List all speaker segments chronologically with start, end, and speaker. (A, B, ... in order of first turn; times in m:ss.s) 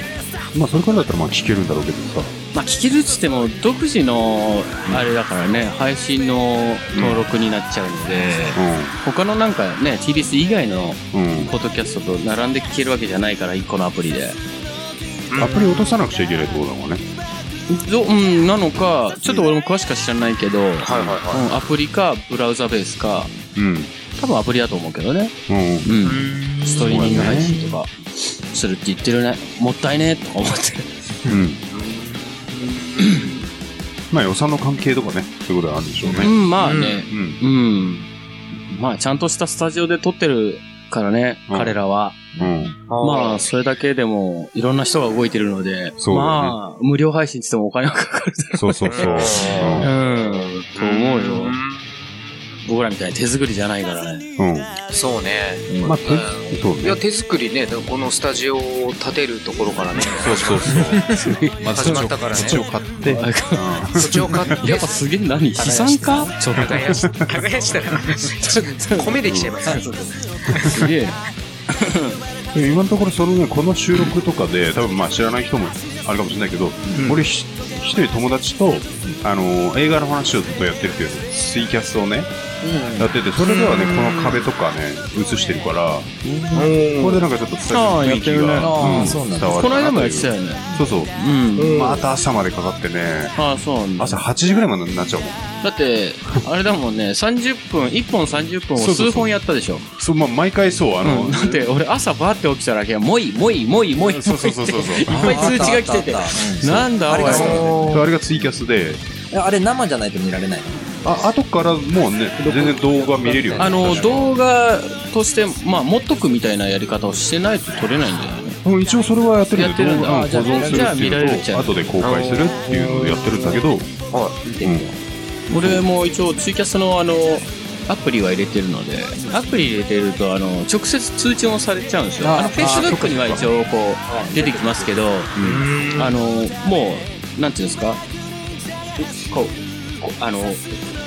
0:00.5-0:02.3 A
0:02.5-0:14.4 B
0:06.9-0:07.2 A
0:08.6-0:09.0 A
0:11.1-0:11.6 A
0:15.3-0:16.0 C
0:15.4-0:17.0 A
0:17.7-0:23.3 B
0:19.2-0:19.5 A
0:20.8-0:21.4 C
0:20.9-0:21.2 A
0:23.6-0:23.9 A
0:24.2-0:27.9 B
0:25.5-0:25.9 A
0:26.0-0:27.7 C
0:26.8-0:27.6 A
0:28.5-0:30.9 B
0:31.3-0:31.6 A
0:31.7-0:33.4 C
0:34.1-0:36.4 A
0:36.0-0:36.3 D
0:36.2-0:38.1 B
0:36.6-0:37.1 C
0:37.1-0:37.4 A
0:38.7-0:42.3 B
0:41.5-0:41.8 A
0:42.3-0:42.8 D
0:42.4-0:42.7 A
0:42.9-0:43.4 C
0:43.0-0:51.6 B
0:46.0-0:46.6 A
0:48.6-0:49.9 A
0:48.9-0:51.9 C
0:52.6-0:54.3 B
0:54.4-0:54.8 A
0:54.9-1:01.1 C
0:55.8-0:57.0 A
1:00.1-1:04.6 A
1:01.1-1:07.0 B
1:01.7-1:02.6 C
1:04.0-1:05.0 C
1:05.6-1:06.4 D
1:06.6-1:10.1 C
1:06.8-1:07.3 A
1:08.4-1:09.2 B
1:09.2-1:09.6 A
1:09.7-1:10.1 D
1:10.5-1:10.9 A
1:10.6-1:12.2 B
1:12.5-1:22.3 A
1:17.0-1:17.3 C
1:22.6-1:23.1 D
1:23.0-1:26.1 A
1:23.4-1:24.5 C
1:26.2-1:26.8 D
1:26.5-1:27.2 C
1:27.0-1:31.1 A
1:27.7-1:31.8 B
1:28.6-1:29.9 D
1:31.6-1:32.1 C
1:31.7-1:33.4 A
1:33.4-1:34.2 B
1:34.0-1:35.6 A
1:35.6-1:39.9 B
1:38.8-1:39.3 A
1:40.0-1:41.7 A
1:41.0-1:47.8 B
1:44.0-1:45.8 A
1:45.1-1:48.0 D
1:46.7-1:49.0 A
1:47.2-1:48.1 C
1:49.3-1:51.0 D
1:51.0-1:54.4 A
1:52.4-1:54.3 D
1:53.6-1:58.6 B
1:58.6-2:03.9 A
1:59.5-2:02.0 B
2:00.4-2:01.0 D
2:02.0-2:03.4 C
2:04.1-2:04.4 C
2:04.4-2:05.0 D
2:04.6-2:04.9 A
2:05.5-2:15.3 B
2:05.5-2:05.8 A
2:09.3-2:09.7 A
2:12.2-2:13.4 D
2:12.6-2:13.5 A
2:14.1-2:15.2 D
2:15.4-2:15.7 A
2:15.4-2:16.1 C
2:16.0-2:18.0 B
2:19.0-2:20.7 B